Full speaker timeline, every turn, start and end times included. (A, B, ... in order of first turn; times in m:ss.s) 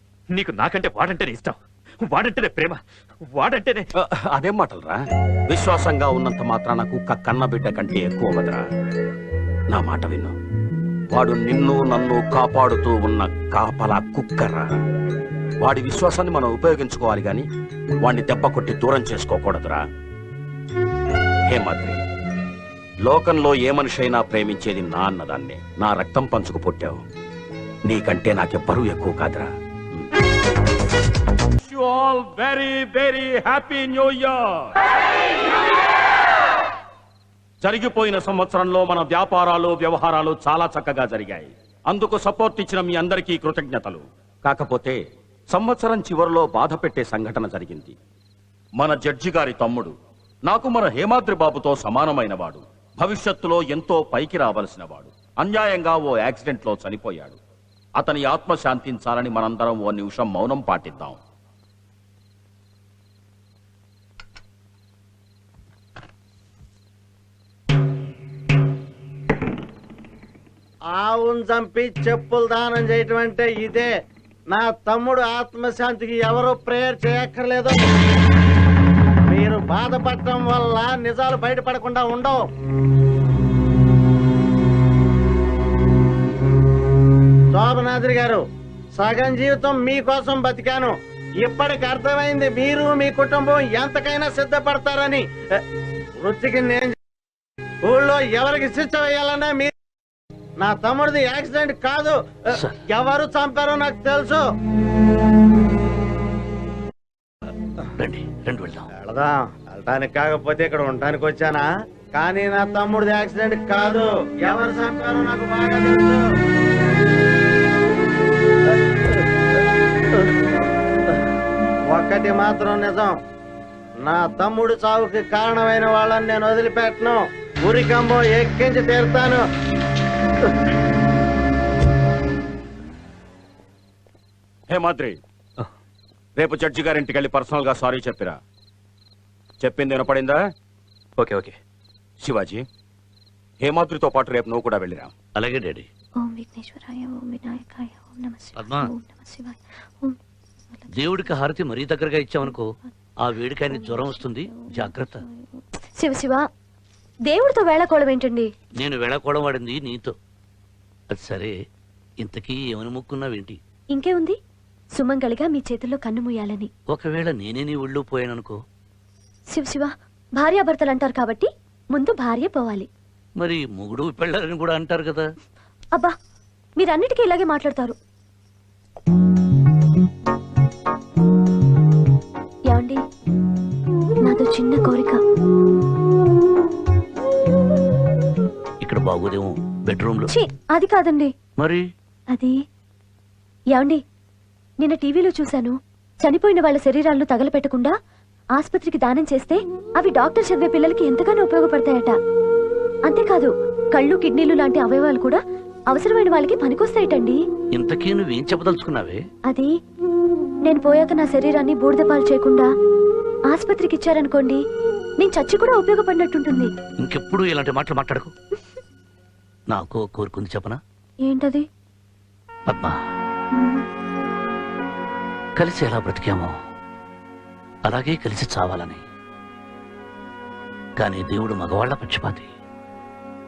0:00.3-0:03.9 A
0:04.0-0:08.6 B
0:09.7-0:10.3 B
0:11.1-0:14.8 B
0:15.6-0:17.4 B
0:18.0-0:19.8 B
0:21.5-0:22.0 B
0:23.0-0:27.0 B
0:27.9-0:30.1 B
0:31.6-0:34.7 B
0:37.6-0:45.0 B
0:45.5-0:47.9 B
0:48.8-0:49.9 B
0:50.5-0:57.4 B
0:58.0-1:01.2 B
1:11.0-1:13.9 C
1:14.5-1:17.8 C
1:19.3-1:22.4 C
1:27.5-1:28.4 C
1:29.0-1:35.2 C
1:36.2-1:37.0 C
1:37.8-1:39.7 C
1:40.6-1:44.4 C
1:48.0-1:48.8 D
1:49.0-1:56.2 C
2:01.9-2:03.1 C
2:04.0-2:09.4 C
2:14.7-2:15.2 B
2:16.4-2:18.4 B
2:19.6-2:20.4 B
2:21.2-2:21.5 A
2:22.2-2:22.7 B
2:23.6-2:25.1 B
2:25.4-2:25.9 D
2:26.2-2:30.2 E
2:28.6-2:28.9 D
2:30.9-2:32.7 D
2:33.2-2:35.2 D
2:36.0-2:36.4 E
2:37.3-2:38.5 E
2:38.8-2:40.1 D
2:41.1-2:41.5 D
2:42.2-2:43.6 D
2:44.0-2:44.4 E
2:45.0-2:46.7 E
2:46.9-2:48.6 D
2:49.5-2:52.9 E
2:53.4-2:55.3 D
2:56.8-2:58.0 E
3:02.7-3:03.0 E
3:04.3-3:05.2 E
3:08.8-3:10.3 D
3:10.3-3:11.3 E
3:13.7-3:14.0 E
3:14.8-3:17.9 E
3:18.6-3:22.2 E
3:23.1-3:25.4 E
3:25.9-3:27.4 E
3:27.7-3:29.2 D
3:30.7-3:32.7 E
3:33.5-3:34.6 E
3:35.2-3:36.7 E
3:37.0-3:38.3 D
3:39.7-3:40.8 D
3:41.2-3:41.6 E
3:42.7-3:43.0 D
3:43.6-3:43.8 E
3:45.6-3:46.5 D
3:47.9-3:49.0 D
3:51.0-3:52.5 D